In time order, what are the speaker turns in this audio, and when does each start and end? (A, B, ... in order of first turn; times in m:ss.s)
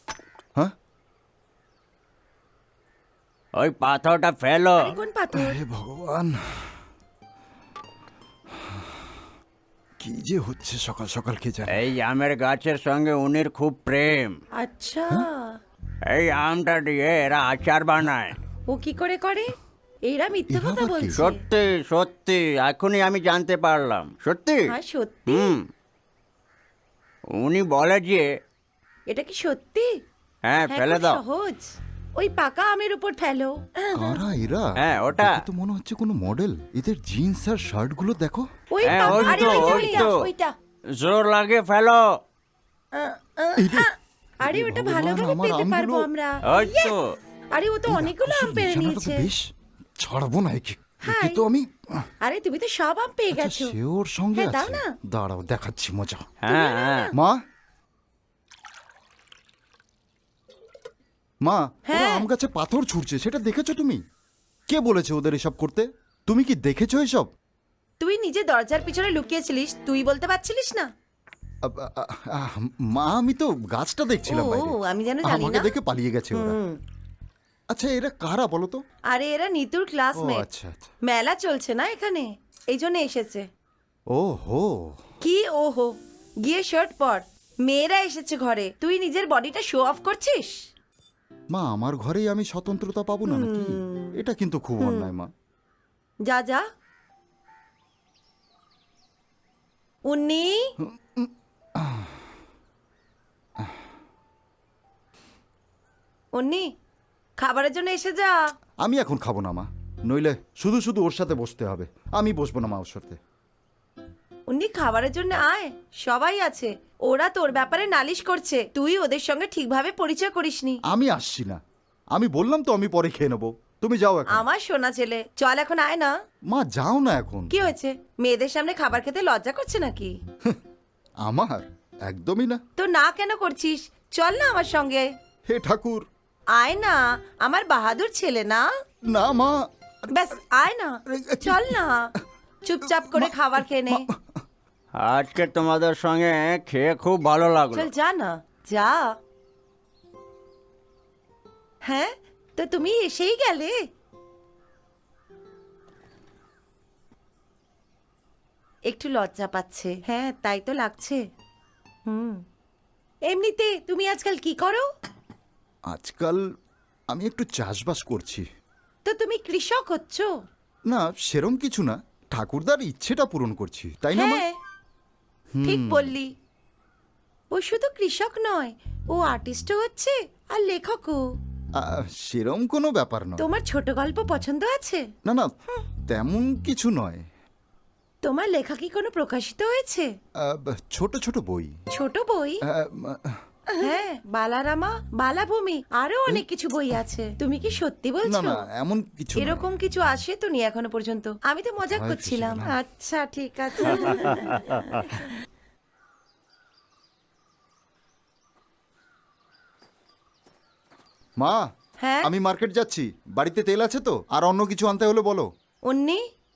0:03.6-0:05.0 A
0:04.8-0:05.6 B
0:05.3-0:06.7 C
0:08.6-0:09.0 C
0:10.0-0:11.8 C
0:11.7-0:14.4 A
0:14.6-0:15.6 B
0:16.1-0:18.4 A
0:18.7-0:19.5 B
0:20.1-0:21.4 B
0:20.5-0:21.2 C
0:21.2-0:24.7 A
0:24.7-0:25.6 B
0:25.3-0:25.7 A
0:27.3-0:28.3 A
0:29.1-0:29.9 B
0:30.5-0:31.2 A
0:30.7-0:34.2 B
0:33.9-0:40.0 C
0:34.8-0:35.4 A
0:38.7-0:40.5 B
0:38.8-0:40.3 A
0:40.9-0:42.2 A
0:42.9-0:47.0 B
0:43.6-0:43.9 C
0:44.4-0:46.1 C
0:46.4-0:47.1 A
0:47.5-0:49.3 B
0:47.9-0:52.1 C
0:51.0-0:51.4 B
0:52.2-0:53.8 B
0:53.3-0:56.3 C
0:54.4-0:54.9 B
0:56.4-0:57.1 A
0:56.5-0:57.1 B
0:57.1-0:57.4 C
1:01.4-1:04.0 C
1:01.9-1:02.3 B
1:04.7-1:07.3 C
1:08.0-1:10.9 B
1:11.6-1:16.6 C
1:14.3-1:15.8 B
1:16.3-1:16.8 B
1:17.7-1:18.8 C
1:19.1-1:20.5 B
1:20.2-1:20.9 C
1:21.0-1:23.5 B
1:24.1-1:25.0 C
1:25.2-1:30.7 B
1:31.5-1:35.3 C
1:33.3-1:34.2 B
1:34.8-1:35.1 B
1:36.3-1:36.6 B
1:40.1-1:40.7 B
1:40.8-1:42.2 C
1:46.3-1:46.7 B
1:47.4-1:48.4 B
1:48.8-1:53.2 C
1:54.5-2:00.8 B
2:00.9-2:01.6 C
2:02.1-2:04.4 C
2:04.3-2:06.1 B
2:06.5-2:07.5 C
2:07.5-2:10.1 B
2:11.2-2:12.6 C
2:12.8-2:15.1 B
2:15.5-2:16.1 C
2:16.6-2:18.6 B
2:19.1-2:20.2 C
2:20.1-2:22.1 B
2:21.1-2:21.8 C
2:22.6-2:24.1 B
2:22.9-2:23.4 C
2:23.9-2:24.3 C
2:25.0-2:27.9 A
2:27.7-2:29.2 B
2:31.9-2:33.7 B
2:38.9-2:41.2 B
2:42.1-2:42.4 B
2:43.3-2:44.8 B
2:45.9-2:46.4 C
2:47.1-2:48.4 C
2:49.1-2:50.3 B
2:50.9-2:54.4 C
2:54.2-2:54.6 B
2:55.6-2:56.2 C
2:55.6-2:56.3 B
2:57.5-3:01.2 B
3:01.8-3:03.5 C
3:03.4-3:05.1 B
3:05.2-3:05.5 C
3:06.1-3:07.2 C
3:08.2-3:10.1 B
3:10.4-3:11.7 C
3:11.9-3:12.6 B
3:12.6-3:13.4 C
3:13.8-3:18.6 B
3:18.2-3:19.6 C
3:19.4-3:25.3 B
3:21.9-3:22.8 C
3:23.9-3:24.6 C
3:32.0-3:32.3 B
3:32.2-3:35.5 C
3:35.9-3:36.2 B